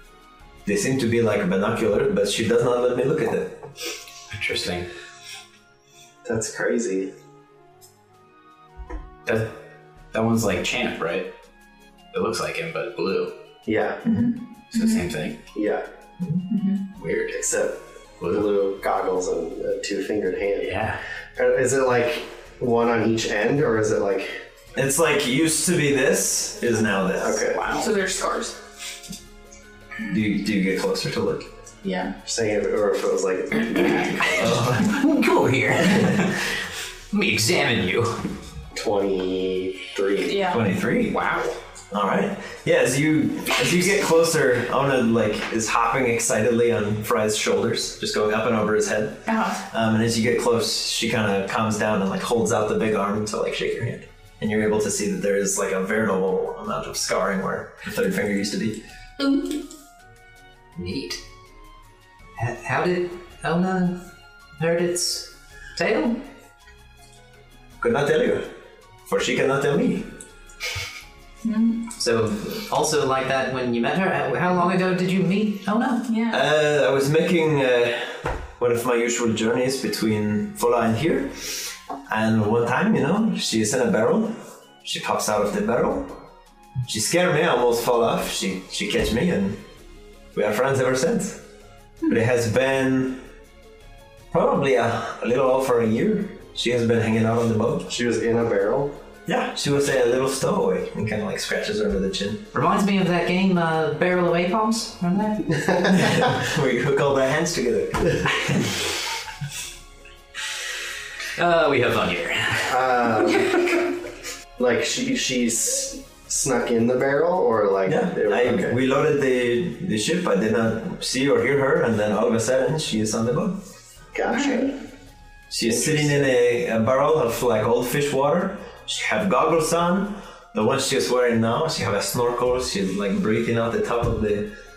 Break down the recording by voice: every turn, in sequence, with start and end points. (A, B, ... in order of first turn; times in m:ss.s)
0:00.6-0:03.6 A
0:04.3-0:04.9 B
0:06.2-0:07.1 C
0:09.3-0:09.5 B
0:10.1-0:11.3 B
0:12.1-0:13.3 B
0:13.7-0:14.1 C
0:14.1-0:15.0 D
0:14.7-0:15.4 B
0:15.5-0:15.8 C
0:16.5-0:16.8 D
0:17.0-0:20.8 C
0:18.2-0:18.5 B
0:20.6-0:21.0 B
0:21.4-0:24.4 C
0:24.8-0:27.4 A
0:27.2-0:27.8 C
0:27.5-0:27.9 B
0:27.7-0:28.6 D
0:30.1-0:31.5 A
0:31.8-0:32.1 D
0:32.2-0:34.6 C
0:34.3-0:35.0 A
0:34.7-0:36.4 E
0:37.1-0:38.2 E
0:38.7-0:40.5 C
0:40.2-0:40.6 D
0:40.4-0:41.2 A
0:41.1-0:41.5 E
0:41.9-0:58.8 A
0:49.3-0:49.6 D
0:59.2-0:59.6 D
1:00.8-1:01.2 E
1:02.4-1:04.0 E
1:04.6-1:06.2 E
1:07.8-1:08.5 A
1:09.1-1:10.1 A
1:11.4-1:11.8 D
1:12.0-1:16.1 E
1:16.1-1:16.4 D
1:16.3-1:21.5 A
1:22.1-1:26.2 A
1:26.8-1:29.6 A
1:30.3-1:31.4 A
1:32.1-1:33.2 A
1:34.3-1:37.9 A
1:37.9-1:39.0 C
1:39.3-1:42.5 A
1:42.5-1:45.5 E
1:45.5-1:46.3 C
1:45.9-1:48.8 A
1:51.4-1:52.6 E
1:52.7-1:53.6 C
1:54.6-1:58.8 C
1:57.9-2:03.6 A
2:04.1-2:04.8 C
2:04.3-2:04.7 D
2:05.5-2:14.5 A
2:05.8-2:06.2 C